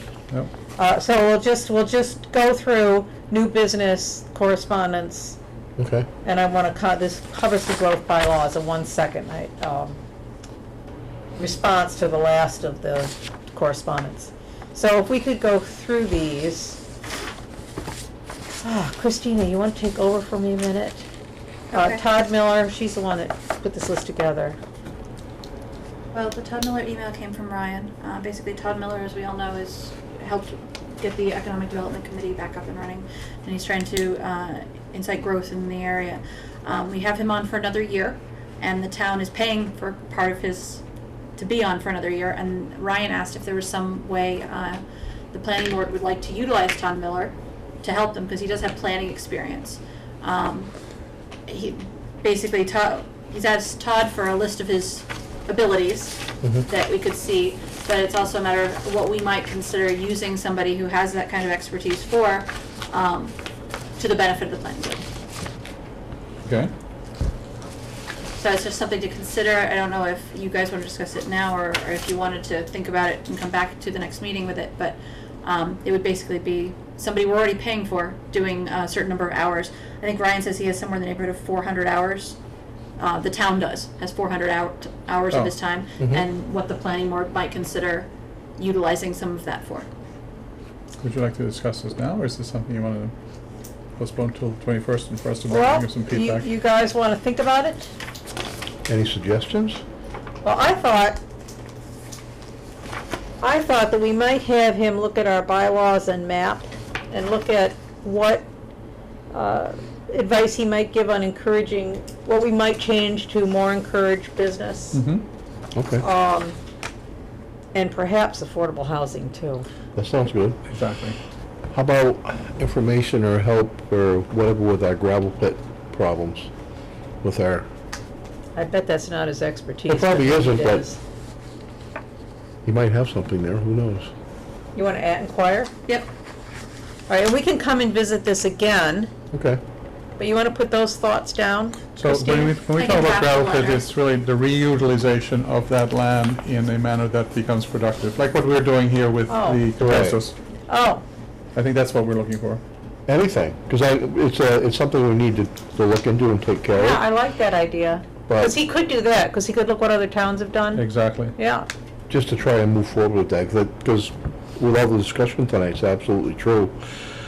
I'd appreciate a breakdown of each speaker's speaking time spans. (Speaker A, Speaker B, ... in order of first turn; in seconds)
Speaker A: 0.8-5.4, 6.2-10.0, 11.4-16.8, 18.6-21.1, 21.7-24.6, 95.5-97.9, 100.4-101.2, 103.4-108.5, 109.3-115.0, 116.0-116.6, 117.7-119.7, 128.5-131.0, 134.7-135.7, 137.1-139.1, 140.2-142.5, 149.3-149.7, 150.7-151.0, 156.7-161.7
Speaker B: 5.8-6.1, 86.0-86.2, 98.9-99.8, 115.7-116.0, 119.9-120.6, 121.7-126.5, 127.2-127.7, 129.9-130.9, 132.6-134.1, 139.3-139.6, 149.8-150.2, 153.1-157.0, 158.3-158.6, 162.1-166.8
Speaker C: 21.7-22.0, 26.1-40.8, 41.4-50.7, 51.5-63.4, 64.0-65.0, 68.4-82.4, 83.0-89.9, 142.4-143.9
Speaker D: 66.4-66.7, 91.0-93.1, 94.0-96.4, 114.9-115.2, 120.7-121.2, 141.9-150.3, 151.5-152.6, 160.7-161.3